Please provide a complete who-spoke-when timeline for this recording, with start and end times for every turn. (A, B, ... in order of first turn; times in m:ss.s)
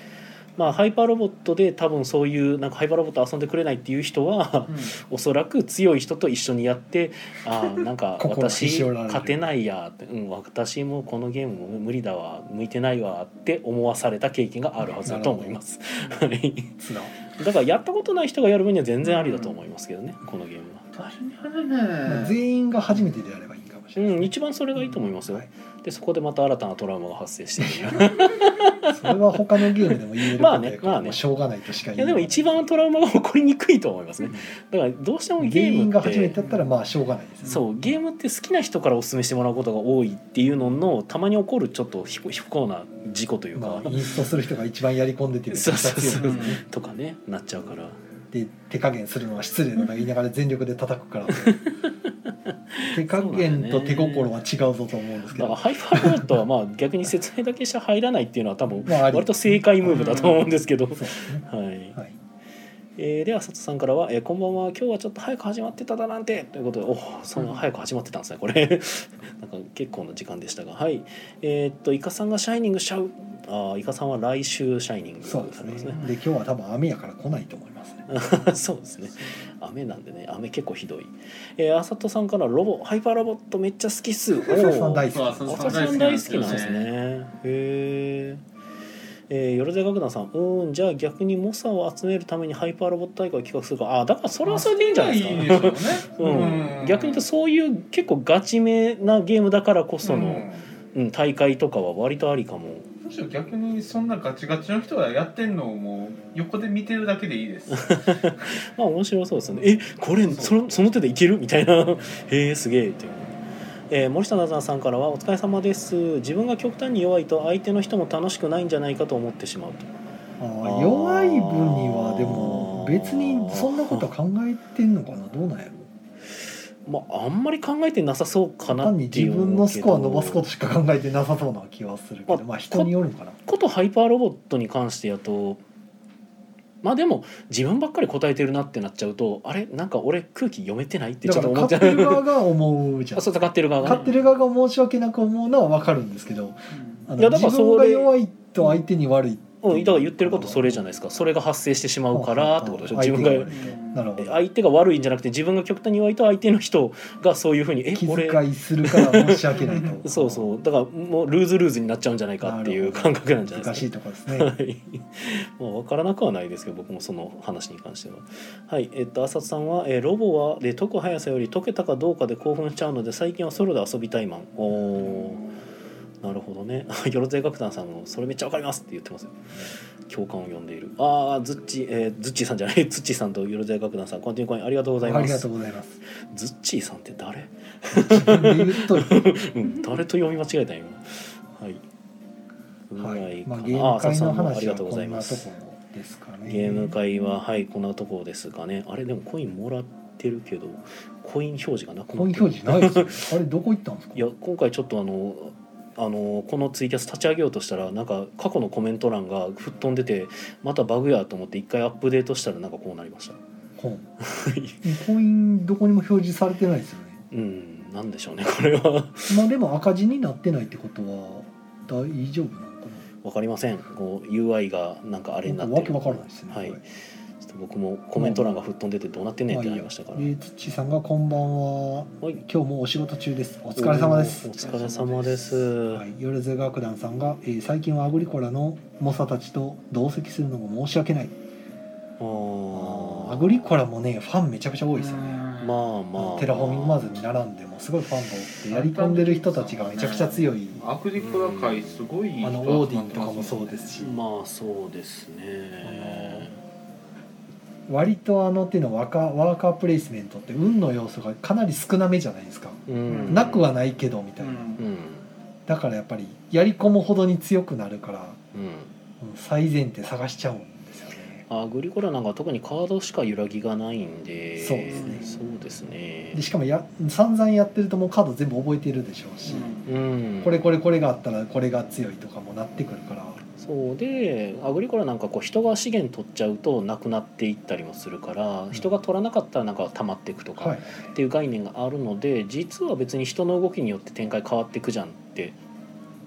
0:00.6-0:16.7 A
0:04.7-0:04.9 B
0:08.2-0:09.5 C
0:15.0-0:15.6 C
0:16.8-0:17.1 C
0:17.3-0:20.9 A
0:19.0-0:19.6 B
0:20.9-0:22.4 B
0:22.0-0:24.3 C
0:24.0-0:29.4 A
0:27.6-0:28.0 C
0:28.9-0:32.6 C
0:30.2-0:31.2 A
0:31.9-0:36.4 A
0:35.4-0:37.6 C
0:36.4-0:36.7 B
0:37.4-0:44.1 A
0:43.6-0:46.6 C
0:43.9-0:44.2 B
0:45.5-0:48.0 A
0:46.2-0:46.6 B
0:48.3-0:51.6 C
0:51.3-0:54.3 A
0:52.9-0:56.3 C
0:55.3-1:02.0 A
0:58.9-1:00.1 C
0:59.9-1:00.4 B
1:00.9-1:02.2 C
1:03.0-1:16.0 A
1:15.2-1:18.1 C
1:18.1-1:28.4 A
1:24.4-1:26.7 C
1:25.0-1:26.9 B
1:29.3-1:42.9 A
1:34.4-1:37.2 B
1:40.0-1:40.6 B
1:43.0-1:48.2 B
1:47.7-1:53.4 A
1:50.2-1:50.6 B
1:53.9-1:59.9 A
2:00.4-2:05.9 C
2:00.6-2:04.1 A
2:06.8-2:10.5 A
2:08.7-2:13.4 C
2:12.3-2:12.9 A
2:13.4-2:15.6 A
2:16.8-2:22.3 A
2:21.2-2:30.8 C
2:23.1-2:24.1 A
2:23.8-2:24.2 B
2:26.7-2:27.0 B
2:27.2-2:28.1 A
2:29.6-2:33.6 A
2:32.1-2:34.4 C
2:33.5-2:34.0 B
2:34.2-2:55.5 A
2:37.9-2:40.5 C
2:39.5-2:40.0 B
2:42.4-2:44.5 C
2:55.0-2:55.4 B
2:56.2-2:59.5 A
3:00.0-3:05.5 A
3:05.0-3:06.0 C
3:06.1-3:11.8 A
3:07.9-3:09.2 C
3:12.9-3:15.5 A
3:13.0-3:17.0 C
3:16.4-3:23.2 A
3:22.1-3:24.3 C
3:24.1-3:33.4 A
3:33.8-3:34.1 C
3:34.2-3:34.8 A
3:34.8-3:37.2 C
3:37.3-3:39.4 A
3:39.3-3:43.0 C
3:43.2-3:46.8 A
3:45.4-3:46.8 C
3:47.4-3:50.3 A
3:48.2-3:48.6 C
3:49.5-3:55.0 C
3:53.8-3:56.0 A
3:54.7-3:55.3 B
3:55.8-4:01.4 C
4:02.2-4:03.8 A
4:02.7-4:05.5 C
4:04.9-4:05.8 B
4:05.6-4:07.1 A
4:06.2-4:10.8 C
4:08.7-4:13.9 B
4:11.2-4:12.1 A
4:12.4-4:14.2 C
4:14.0-4:16.6 A
4:15.8-4:16.5 C
4:17.9-4:24.7 C
4:22.9-4:23.7 A
4:23.1-4:23.5 B
4:24.4-4:24.8 B
4:24.8-4:25.2 A
4:25.7-4:28.4 C
4:28.5-4:28.9 A
4:29.2-4:31.4 C
4:31.5-4:36.4 A
4:34.6-4:35.2 C
4:34.9-4:35.3 B
4:36.3-4:39.8 C
4:39.4-4:39.8 B
4:39.8-4:40.6 A
4:40.4-4:43.4 C
4:43.6-4:55.6 A
4:50.6-4:50.9 C